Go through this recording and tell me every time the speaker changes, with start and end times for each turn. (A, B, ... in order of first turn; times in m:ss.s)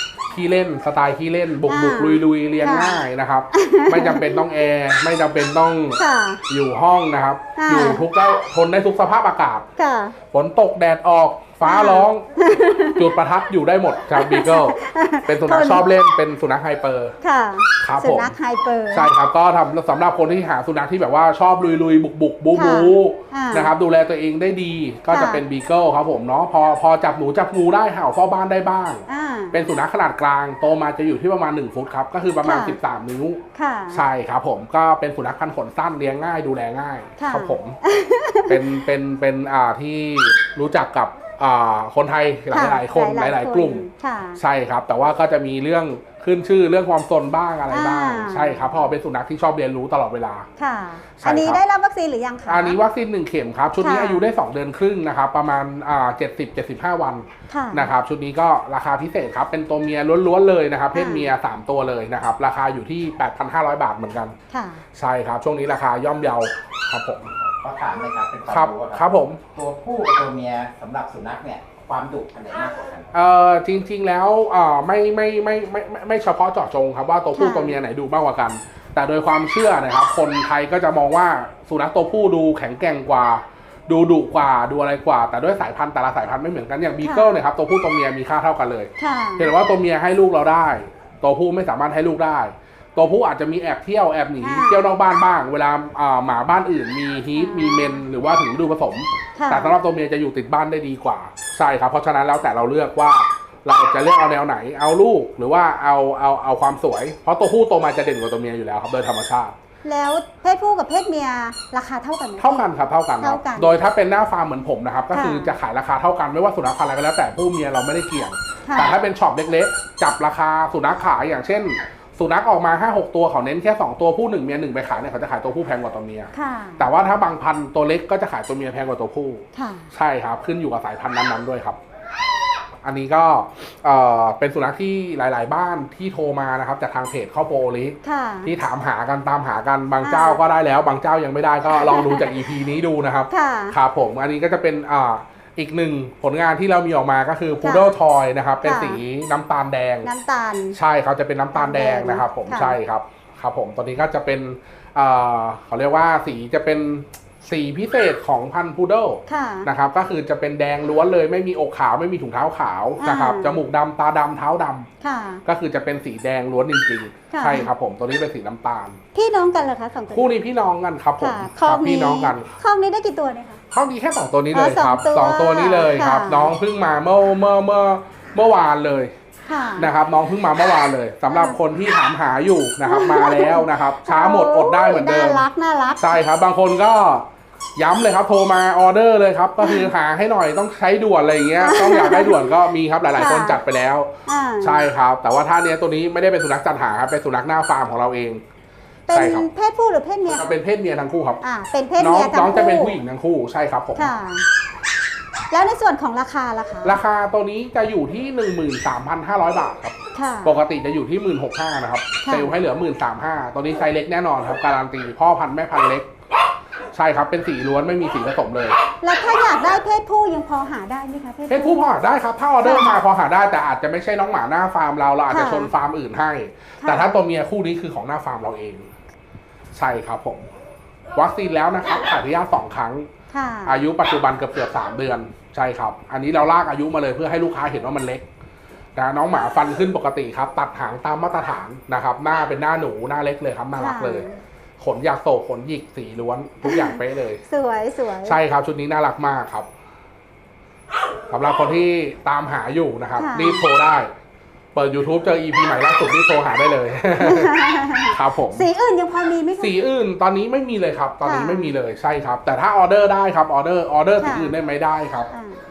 0:00.3-0:09.6 A
0:01.7-0:04.5 B
0:06.0-0:06.4 B
0:07.6-0:08.0 B
0:09.8-0:10.2 B
0:10.3-0:12.3 A
0:11.6-0:13.2 B
0:12.9-0:17.2 A
0:14.1-0:15.8 B
0:17.2-0:19.1 B
0:17.8-0:18.3 A
0:18.9-0:37.8 A
0:22.6-0:23.7 B
0:25.1-0:25.4 B
0:29.1-0:29.6 B
0:32.4-0:32.8 B
0:33.6-0:34.1 B
0:37.2-0:38.7 B
0:38.5-0:43.9 A
0:42.5-0:44.4 B
0:44.4-0:50.5 A
0:47.7-0:48.9 B
0:50.6-0:52.8 B
0:51.2-0:51.6 A
0:52.5-1:04.4 A
0:53.8-0:54.3 B
0:57.5-0:57.9 B
1:00.9-1:01.3 B
1:04.5-1:04.8 B
1:05.0-1:07.3 A
1:07.4-1:09.0 C
1:08.5-1:09.4 A
1:09.6-1:13.1 C
1:13.1-1:49.6 A
1:17.4-1:17.8 B
1:27.0-1:27.4 B
1:29.0-1:29.5 B
1:34.4-1:34.8 B
1:37.3-1:38.1 B
1:39.4-1:39.8 B
1:49.8-1:52.6 B
1:52.4-2:11.8 A
1:53.2-1:53.8 B
1:55.1-1:55.6 B
1:58.7-1:59.0 B
2:06.3-2:06.9 B
2:09.5-2:09.9 B
2:12.8-2:30.1 A
2:18.0-2:18.5 B
2:20.0-2:20.4 B
2:21.8-2:22.3 B
2:23.3-2:23.8 B
2:27.6-2:27.9 B
2:28.6-2:29.0 B
2:30.0-2:30.8 B
2:30.7-2:44.9 A
2:31.6-2:32.8 B
2:39.3-2:39.7 B
2:43.0-2:43.6 B
2:45.0-2:45.4 B
2:45.5-2:49.0 A
2:47.3-2:47.7 B
2:49.2-2:50.4 B
2:50.1-2:52.5 A
2:51.2-2:53.6 B
2:53.7-2:59.1 A
2:54.5-2:56.6 B
2:59.5-2:59.9 B
2:59.8-3:05.5 A
3:01.3-3:01.6 B
3:02.8-3:06.2 B
3:06.0-3:14.1 A
3:09.6-3:09.9 B
3:11.6-3:12.5 B
3:13.1-3:13.6 B
3:14.3-3:14.9 B
3:14.6-3:18.4 A
3:19.1-3:20.5 B
3:19.1-3:19.5 A
3:20.3-3:21.4 A
3:21.4-3:23.0 B
3:22.0-3:24.1 A
3:24.0-3:24.5 B
3:25.5-3:27.0 B
3:26.8-3:36.1 A
3:30.1-3:30.5 B
3:32.2-3:32.5 B
3:36.9-3:38.8 A
3:39.0-3:41.9 B
3:41.5-3:48.9 A
3:42.6-3:43.0 B
3:45.3-3:45.7 B
3:46.8-3:47.2 B
3:49.7-3:50.5 A
3:51.2-3:53.1 A
3:53.3-3:53.8 B
3:53.7-3:58.2 A
3:59.0-4:04.3 A
4:03.8-4:04.4 B
4:04.8-4:07.4 A
4:06.6-4:08.4 B
4:08.2-4:09.7 A
4:11.3-4:14.1 A
4:13.2-4:13.6 B
4:14.8-4:18.7 A
4:17.2-4:19.8 B
4:19.6-4:25.3 A
4:21.2-4:21.7 B
4:24.2-4:24.6 B
4:25.3-4:25.6 B